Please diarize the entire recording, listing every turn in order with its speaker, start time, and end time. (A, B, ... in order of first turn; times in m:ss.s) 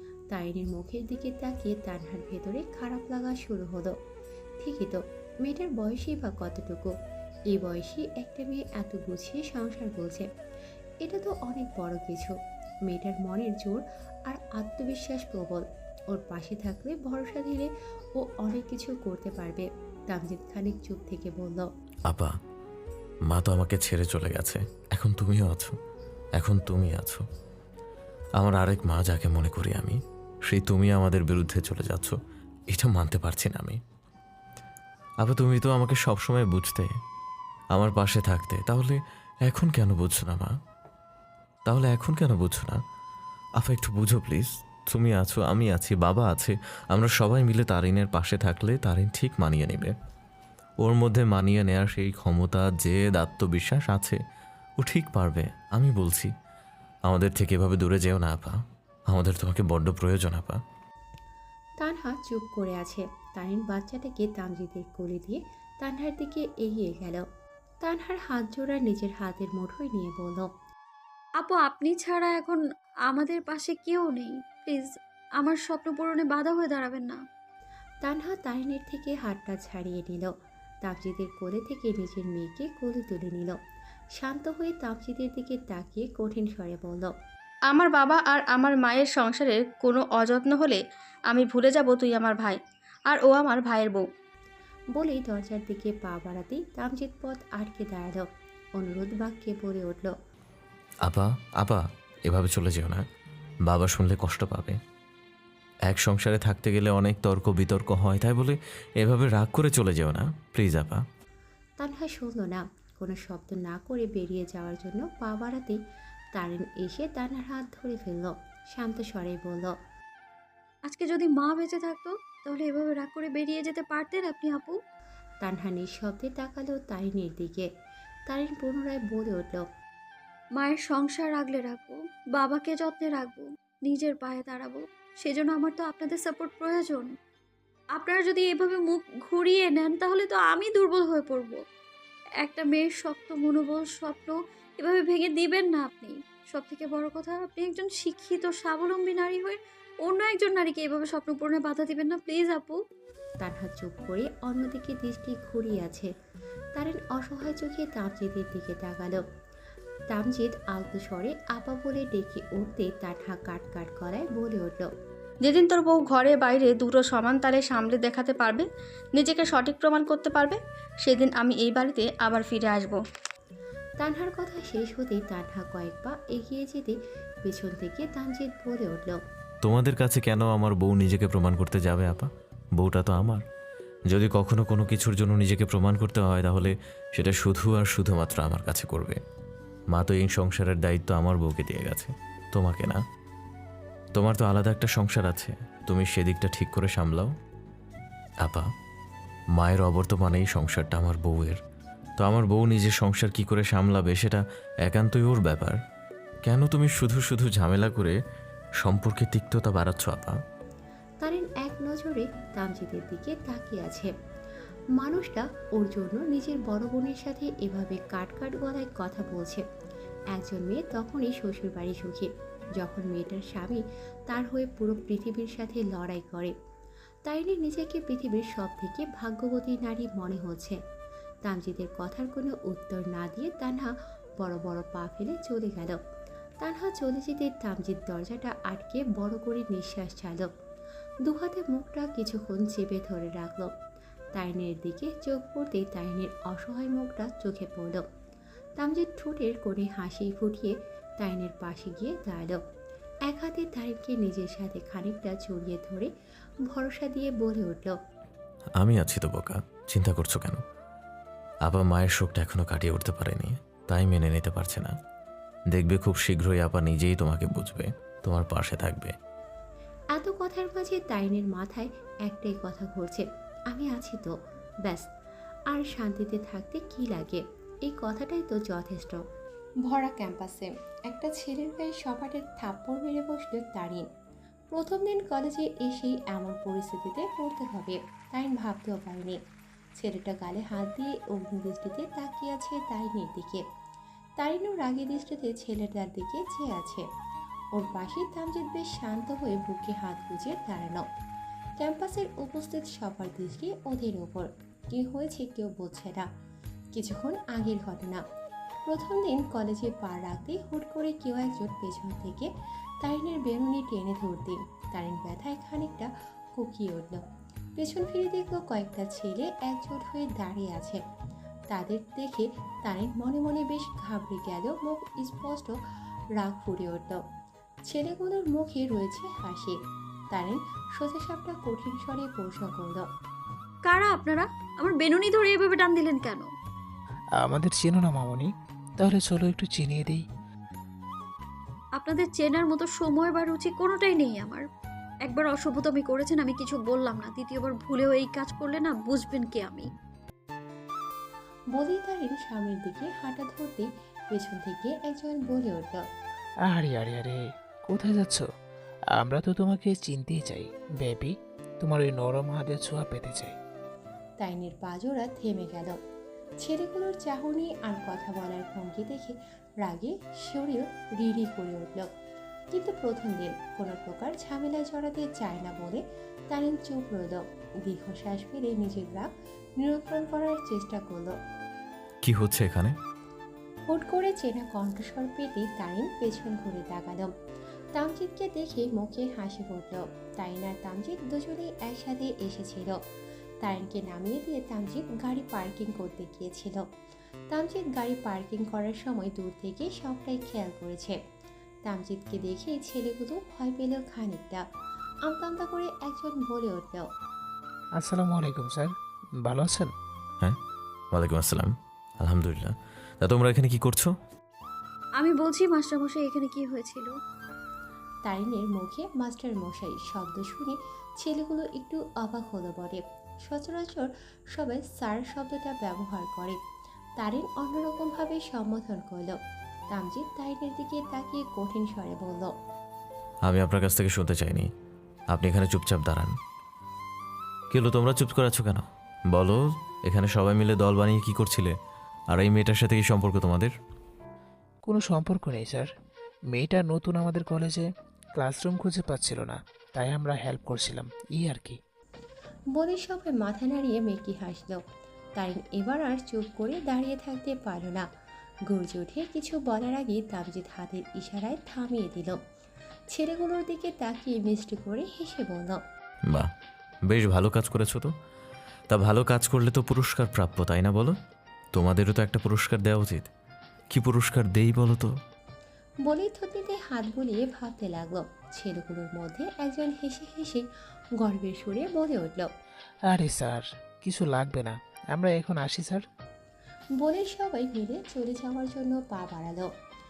0:00.3-0:03.9 A
0:04.6-0:06.9 A
0:07.5-0:10.2 A
0:11.0-0:12.3 A
0:12.9-0:21.7 A
0:23.3-0:25.8 B
0:26.4-0:27.2 B
0:28.4-0:32.2 B
0:32.7-0:33.8 B
0:35.2-0:36.9 B
0:37.7-0:40.5 B
0:41.7-0:42.8 B
0:43.6-0:49.9 B
0:50.8-0:54.2 B
0:54.8-0:56.3 B
0:57.1-0:58.6 B
0:59.1-1:00.6 B
1:01.8-1:07.2 A
1:07.8-1:10.5 A
1:11.4-1:17.2 C
1:18.0-1:20.3 A
1:20.8-1:23.5 A
1:24.2-1:27.1 A
1:27.7-1:34.0 D
1:34.9-1:38.2 A
1:38.8-1:40.1 A
1:41.0-1:43.0 B
1:43.7-1:44.8 B
1:45.9-1:51.0 B
1:51.8-1:55.8 A
1:56.3-1:59.7 A
2:00.9-2:04.8 C
2:05.4-2:07.7 A
2:08.3-2:09.6 A
2:10.5-2:17.1 C
2:17.9-2:21.6 C
2:22.4-2:32.8 C
2:33.4-2:36.1 A
2:36.8-2:39.2 A
2:40.1-2:44.9 A
2:45.4-2:53.0 D
2:54.0-2:59.2 A
2:59.6-3:03.4 B
3:04.1-3:09.2 B
3:09.9-3:13.0 B
3:14.2-3:17.3 B
3:19.6-3:21.6 B
3:22.2-3:25.8 B
3:26.4-3:28.2 B
3:28.8-3:30.4 B
3:31.2-3:34.1 A
3:35.0-3:39.6 A
3:40.3-3:46.5 A
3:47.2-3:50.8 A
3:51.4-3:56.0 A
3:56.6-4:00.5 A
4:01.2-4:03.7 A
4:04.3-4:08.0 A
4:08.8-4:12.6 A
4:13.3-4:16.1 A
4:16.7-4:18.0 A
4:18.8-4:20.6 B
4:21.6-4:24.9 B
4:25.7-4:29.1 B
4:30.1-4:34.3 A
4:35.7-4:39.2 A
4:39.8-4:44.0 A
4:44.7-4:49.4 A
4:50.0-4:53.6 A
4:54.4-4:57.0 A
4:57.7-5:01.0 A
5:01.8-5:06.3 A
5:06.9-5:08.2 A
5:08.9-5:12.5 A
5:13.0-5:17.2 A
5:17.8-5:21.0 A
5:21.7-5:25.7 A
5:26.4-5:27.2 A
5:27.9-5:29.8 A
5:30.3-5:33.0 A
5:33.8-5:36.5 C
5:37.4-5:40.2 E
5:42.0-5:44.6 C
5:45.2-5:49.9 C
5:51.7-5:56.0 A
5:56.6-5:58.5 E
5:59.1-6:03.5 E
6:04.4-6:06.0 A
6:06.6-6:12.1 A
6:12.7-6:19.3 A
6:19.8-6:21.3 A
6:22.2-6:22.9 B
6:23.9-6:27.3 A
6:27.9-6:33.0 A
6:33.6-6:36.8 A
6:37.5-6:41.2 A
6:41.8-6:44.6 A
6:45.2-6:47.1 A
6:48.0-6:49.9 E
6:51.1-6:54.1 B
6:55.2-6:57.1 C
6:58.2-7:06.6 A
7:07.2-7:09.3 A
7:09.9-7:12.5 A
7:13.4-7:14.7 B
7:15.3-7:16.3 B
7:17.7-7:21.7 B
7:22.3-7:23.7 B
7:24.8-7:25.9 E
7:26.5-7:31.8 E
7:32.7-7:34.8 A
7:35.4-7:38.0 A
7:38.7-7:42.4 A
7:43.1-7:45.8 A
7:47.1-7:48.1 B
7:48.9-7:51.1 B
7:51.7-7:53.3 B
7:53.9-7:55.1 B
7:56.0-8:00.6 A
8:01.2-8:02.5 A
8:03.0-8:06.0 E
8:07.0-8:09.7 A